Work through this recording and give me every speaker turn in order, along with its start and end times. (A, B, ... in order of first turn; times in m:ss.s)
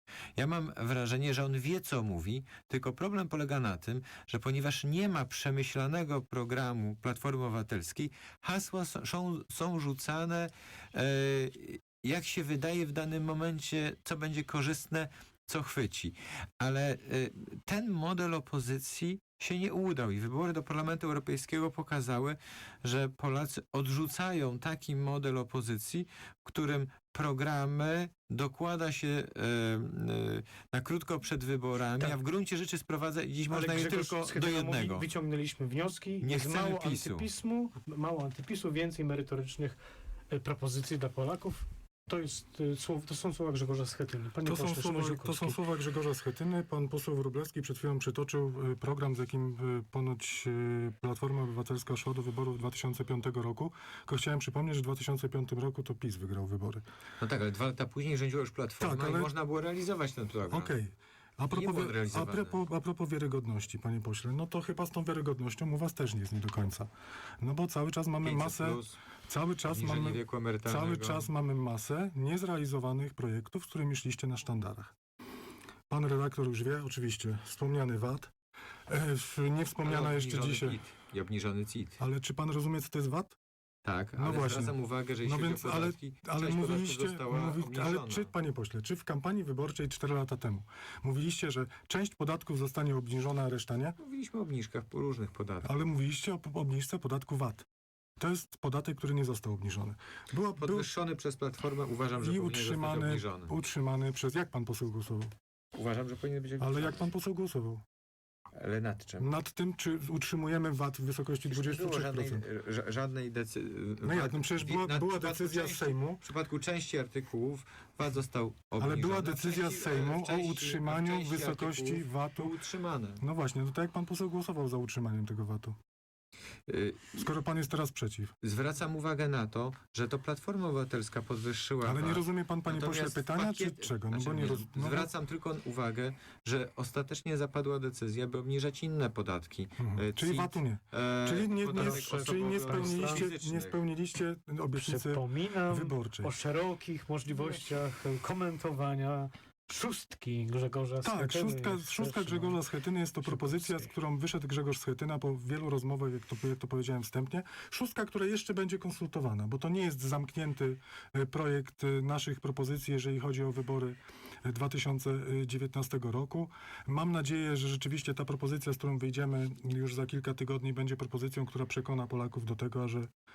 0:00.4-0:35.1 A
0:33.5-0:39.8 B
0:36.2-0:37.3 A
0:40.3-0:45.6 B
0:44.4-0:56.8 C
0:57.2-1:00.7 A
0:58.8-0:59.3 C
1:00.5-1:06.9 C
1:01.5-1:02.6 A
1:07.4-1:14.9 C
1:08.2-1:09.0 A
1:09.7-1:11.3 A
1:15.9-1:18.3 C
1:18.9-1:20.8 C
1:19.8-1:22.0 A
1:22.0-1:23.4 C
1:23.8-1:28.3 A
1:24.2-1:34.0 C
1:34.0-1:35.7 A
1:35.6-1:37.6 C
1:38.2-1:40.9 C
1:40.6-1:43.5 A
1:42.2-1:45.3 C
1:45.7-1:47.1 A
1:46.6-1:47.8 C
1:48.5-1:49.3 A
1:49.2-1:52.4 C
1:51.5-2:03.2 A
1:54.0-1:56.2 C
1:58.8-2:02.5 C
2:03.2-2:05.8 C
2:06.7-2:07.2 A
2:07.2-2:08.4 C
2:08.4-2:23.8 A
2:11.8-2:15.1 C
2:19.8-2:26.3 C
2:21.8-2:23.3 B
2:24.8-2:32.6 B
2:31.0-2:53.1 C
2:33.2-2:33.9 B